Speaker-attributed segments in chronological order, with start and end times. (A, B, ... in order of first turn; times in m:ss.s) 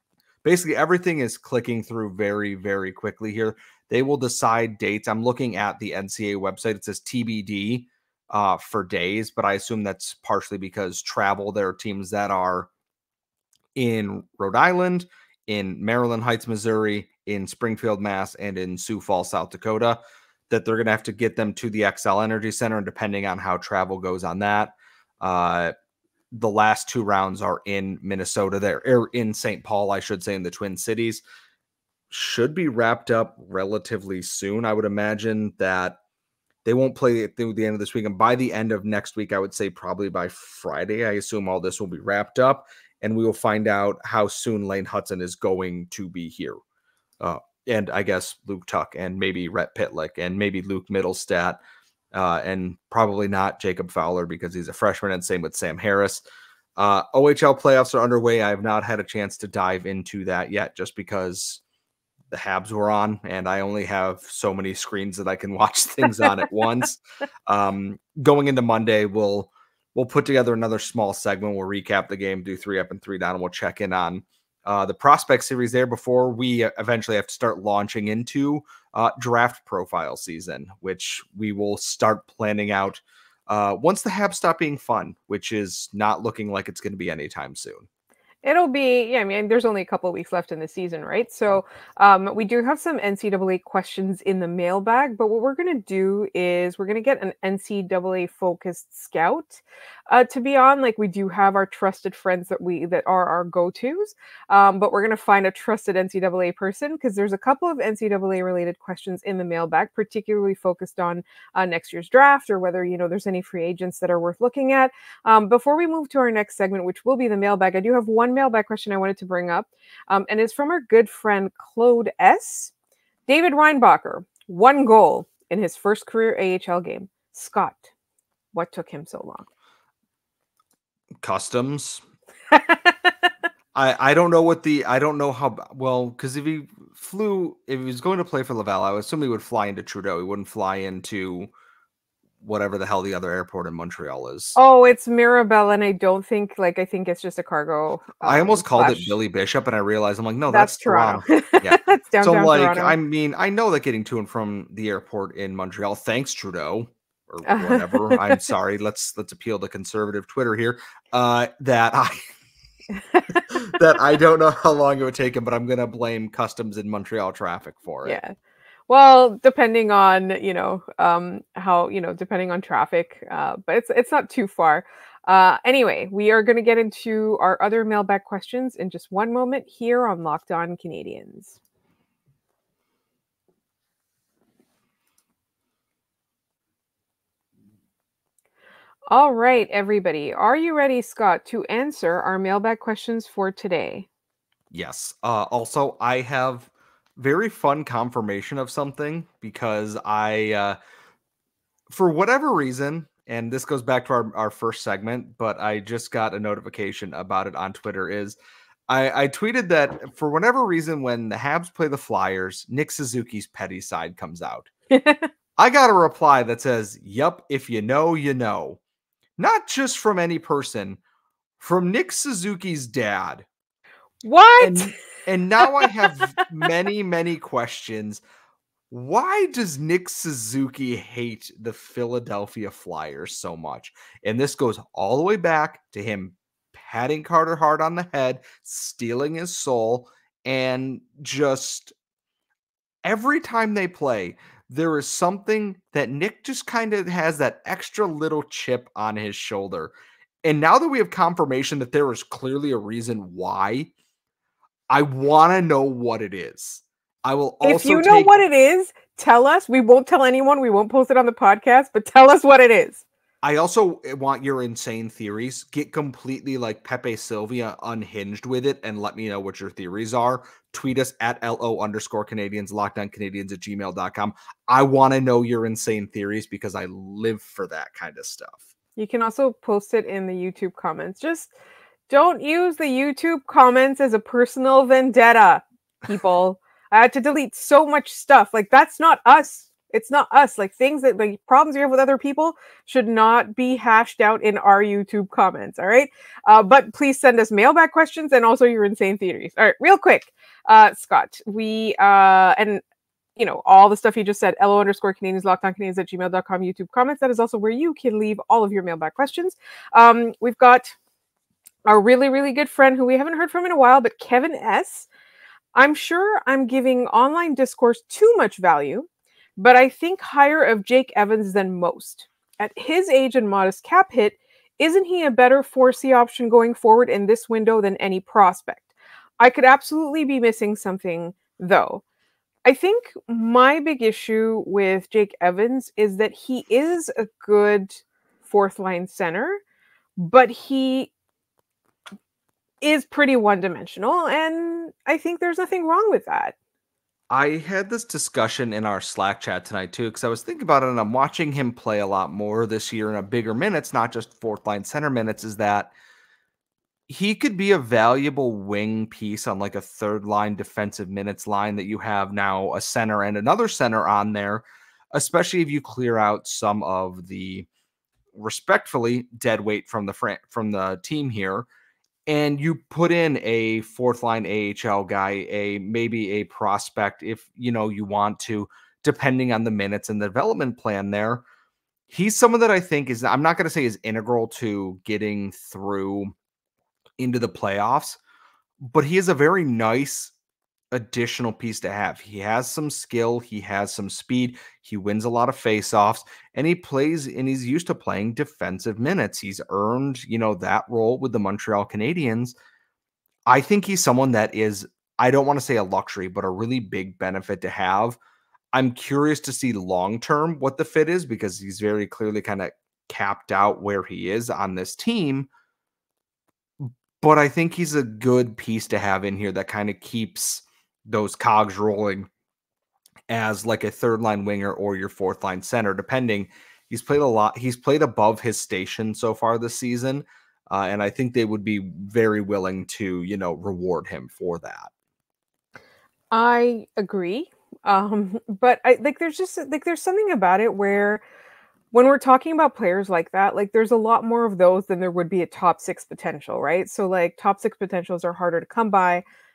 0:00.4-0:12.7 A
0:13.8-0:25.7 A
0:26.3-0:31.2 A
0:32.1-0:36.0 A
0:36.6-0:46.6 A
0:47.2-0:51.6 A
0:52.1-0:56.2 A
0:56.8-1:01.6 A
1:02.3-1:27.9 A
1:28.4-2:02.7 B
2:03.3-2:07.9 B
2:08.5-2:09.5 B
2:11.2-2:12.0 A
2:13.7-2:21.5 A
2:22.4-2:24.6 A
2:24.6-2:29.2 B
2:28.2-2:42.3 A
2:30.5-2:33.0 B
2:37.4-2:38.4 B
2:43.1-2:43.4 B
2:43.5-2:48.2 A
2:48.0-2:48.3 B
2:48.9-3:01.6 B
3:09.1-3:14.1 B
3:14.7-3:20.8 A
3:21.9-3:28.4 A
3:28.9-3:34.7 A
3:34.9-3:35.3 B
3:35.6-3:38.8 A
3:39.4-3:41.0 A
3:41.6-3:43.5 A
3:44.2-3:45.0 B
3:44.6-3:48.2 A
3:48.9-4:01.9 A
4:03.0-4:09.9 A
4:10.4-4:13.9 A
4:14.9-4:18.3 A
4:17.6-4:23.0 B
4:23.4-4:38.6 A
4:39.0-4:41.5 B
4:42.1-5:02.8 B
5:03.4-5:11.0 B
5:11.8-5:15.1 B
5:15.7-5:32.0 B
5:32.6-5:39.6 B
5:40.2-5:41.1 B
5:42.8-5:46.6 B
5:47.3-5:55.9 A
5:57.1-6:07.7 A
6:08.3-6:11.7 A
6:12.3-6:21.4 A
6:22.1-6:26.3 A
6:27.2-6:28.2 A
6:28.8-6:30.3 A
6:30.9-6:42.6 A
6:43.5-6:48.2 A
6:48.7-6:55.5 A
6:56.8-7:02.3 A
7:03.3-7:14.9 A
7:16.3-7:21.2 B
7:21.9-7:29.2 B